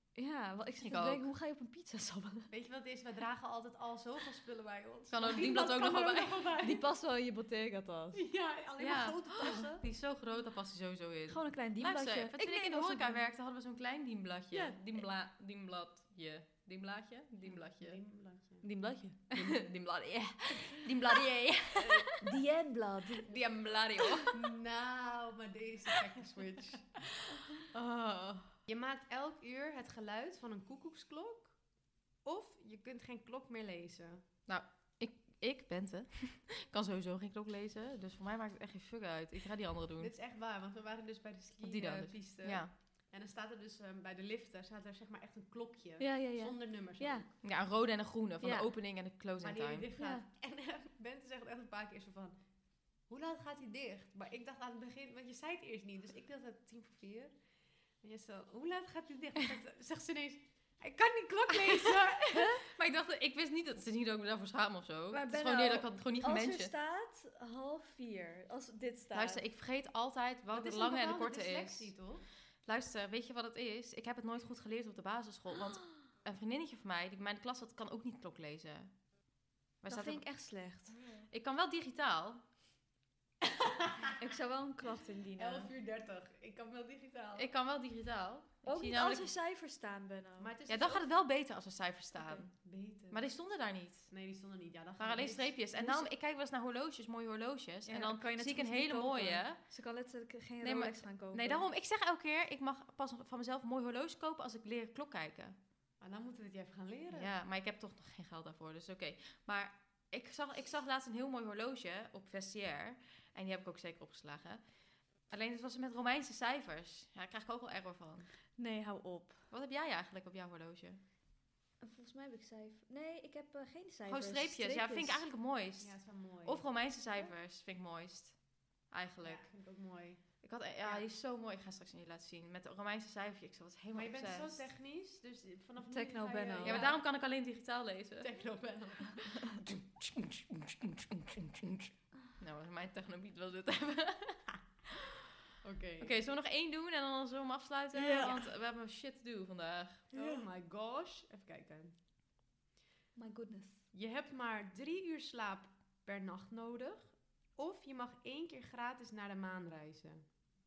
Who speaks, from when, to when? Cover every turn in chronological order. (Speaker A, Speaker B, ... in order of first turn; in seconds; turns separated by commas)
Speaker A: 0.1-2.5, Speaker B: 0.8-1.3, Speaker C: 2.5-6.8, Speaker B: 5.1-6.4, Speaker A: 6.6-8.2, Speaker C: 8.1-9.8, Speaker B: 8.8-18.0, Speaker A: 9.4-9.7, Speaker A: 11.3-13.2, Speaker A: 14.5-15.0, Speaker C: 17.5-18.6, Speaker A: 18.6-19.2, Speaker B: 19.3-22.2, Speaker A: 21.8-23.3, Speaker B: 23.2-24.4, Speaker C: 24.3-27.0, Speaker B: 27.7-28.6, Speaker C: 28.7-34.2, Speaker B: 34.5-40.1, Speaker C: 40.0-47.3, Speaker B: 41.6-42.7, Speaker A: 46.0-47.3, Speaker B: 47.4-49.9, Speaker A: 48.4-48.7, Speaker C: 49.4-52.4, Speaker A: 50.0-50.2, Speaker C: 53.0-57.4, Speaker C: 58.0-62.6, Speaker B: 62.6-66.7, Speaker A: 65.1-69.4, Speaker B: 69.1-79.2, Speaker C: 70.5-72.2, Speaker B: 79.8-80.7, Speaker A: 79.9-81.0, Speaker C: 80.9-81.3, Speaker B: 81.3-82.4, Speaker C: 83.6-83.9, Speaker A: 84.2-85.7, Speaker C: 85.4-87.5, Speaker B: 87.3-89.3, Speaker A: 88.6-90.5, Speaker C: 90.4-91.1, Speaker B: 90.7-94.1, Speaker A: 92.2-92.4, Speaker C: 92.5-93.3, Speaker C: 94.1-96.0, Speaker B: 95.0-99.7, Speaker A: 95.8-96.0, Speaker A: 97.8-101.6, Speaker B: 100.6-105.5, Speaker C: 106.0-107.3, Speaker B: 107.1-118.3, Speaker A: 118.5-119.5, Speaker B: 119.5-121.0, Speaker A: 121.8-125.2, Speaker B: 124.1-129.5, Speaker C: 125.8-126.7, Speaker C: 129.2-131.1, Speaker B: 130.4-134.7, Speaker C: 133.9-137.0, Speaker A: 135.8-136.8, Speaker B: 136.6-138.4, Speaker C: 138.2-139.6, Speaker B: 139.2-144.5, Speaker C: 145.6-146.2, Speaker B: 146.0-150.1, Speaker A: 147.9-148.5, Speaker C: 150.1-151.9, Speaker A: 150.1-150.4, Speaker A: 153.1-153.8, Speaker C: 153.9-160.2